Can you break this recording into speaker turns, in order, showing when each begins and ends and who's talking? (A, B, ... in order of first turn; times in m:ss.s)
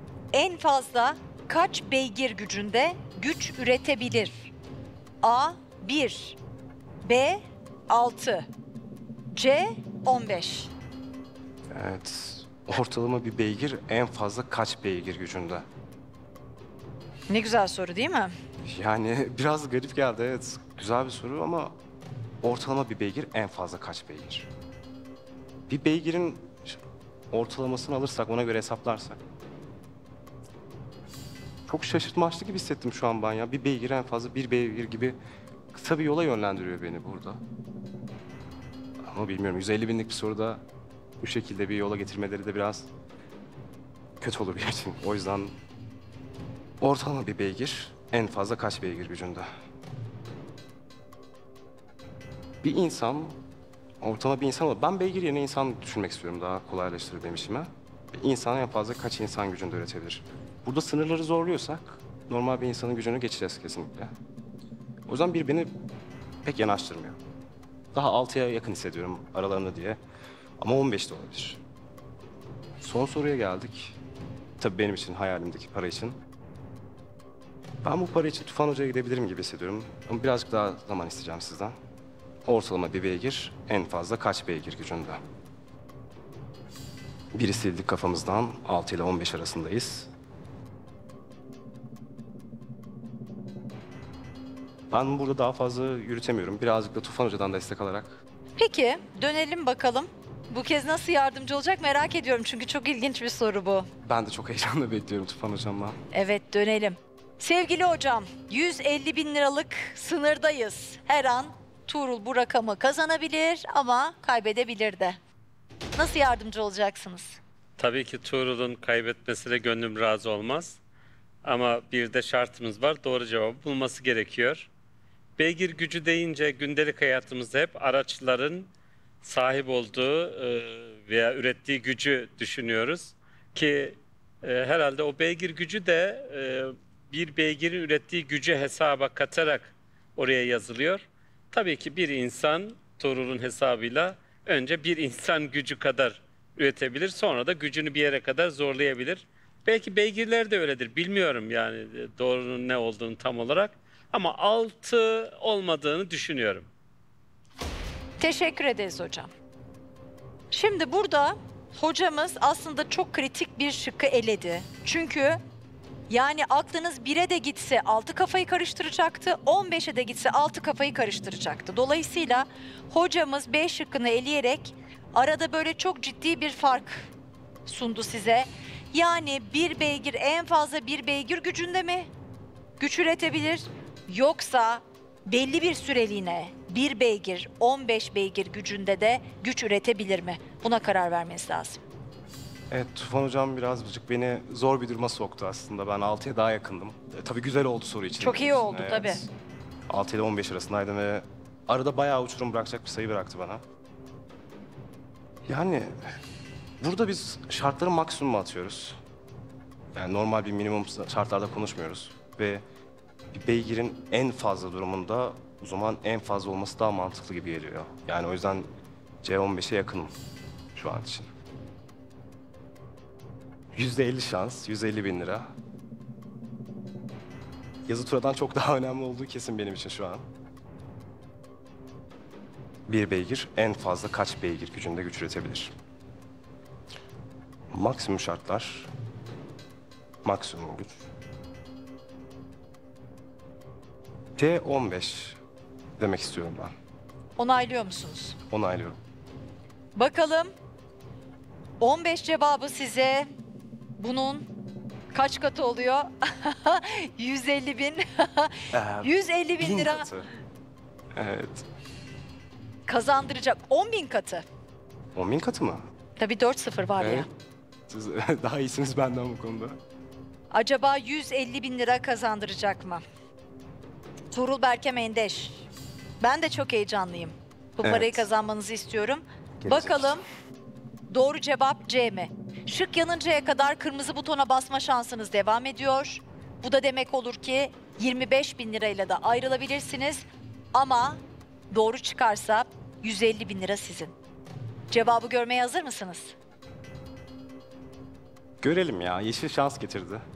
0:00.3-0:04.5 A
0:05.2-0:06.4 A
0:07.0-0:08.5 A
0:09.3-0:10.7 A
0:11.7-0:15.6 B
0:17.3-0:18.3 A
0:18.6-0:21.8 B
0:22.4-0:24.5 B
0:25.7-0:26.8 B
0:27.3-0:29.2 B
0:31.7-0:35.2 B
0:35.7-0:37.4 B
0:39.0-0:40.6 B
0:41.2-0:42.9 B
0:44.2-0:45.6 B
0:46.8-0:49.5 B
0:52.6-0:53.4 B
0:54.0-1:04.1 B
1:05.1-1:05.7 B
1:06.4-1:07.2 B
1:07.9-1:10.0 B
1:10.6-1:11.6 B
1:12.8-1:14.0 B
1:14.6-1:16.2 B
1:17.8-1:21.8 B
1:22.5-1:25.2 B
1:27.3-1:30.1 B
1:34.9-1:38.2 B
1:38.6-1:43.9 A
1:44.0-1:46.0 B
1:46.1-1:55.2 A
1:56.0-1:57.4 A
1:57.8-2:00.8 C
2:01.4-2:04.7 C
2:05.4-2:08.7 C
2:09.2-2:36.7 C
2:38.2-2:39.3 A
2:40.5-2:45.4 A
2:46.1-2:57.1 A
2:57.7-3:02.1 A
3:02.8-3:11.8 A
3:12.7-3:19.3 B
3:18.2-3:19.2 A
3:19.9-3:23.6 B
3:25.5-3:26.0 B
3:26.8-3:29.0 B
3:30.0-3:32.6 B
3:33.3-3:38.7 B
3:39.2-3:40.2 B
3:40.8-3:41.3 B
3:43.8-3:45.5 B
3:47.9-3:50.3 B
3:52.9-3:55.7 B
3:57.7-3:58.9 B
4:00.2-4:01.0 B
4:04.4-4:05.4 B
4:06.0-4:06.7 B
4:07.4-4:08.4 A
4:08.5-4:09.0 B
4:10.0-4:10.5 A
4:11.8-4:13.3 A
4:14.0-4:14.5 A
4:15.1-4:20.1 A
4:18.7-4:20.3 B
4:21.2-4:21.7 B
4:22.9-4:24.4 A
4:25.2-4:25.8 B
4:26.2-4:27.3 A
4:27.0-4:27.3 B
4:27.9-4:29.8 B
4:30.5-4:33.0 A
4:34.3-4:35.7 A
4:36.2-4:40.2 A
4:37.8-4:38.3 B
4:39.6-4:40.2 B
4:41.1-4:51.2 A
4:51.7-4:54.1 A
4:54.9-4:56.4 A
4:58.6-5:00.2 B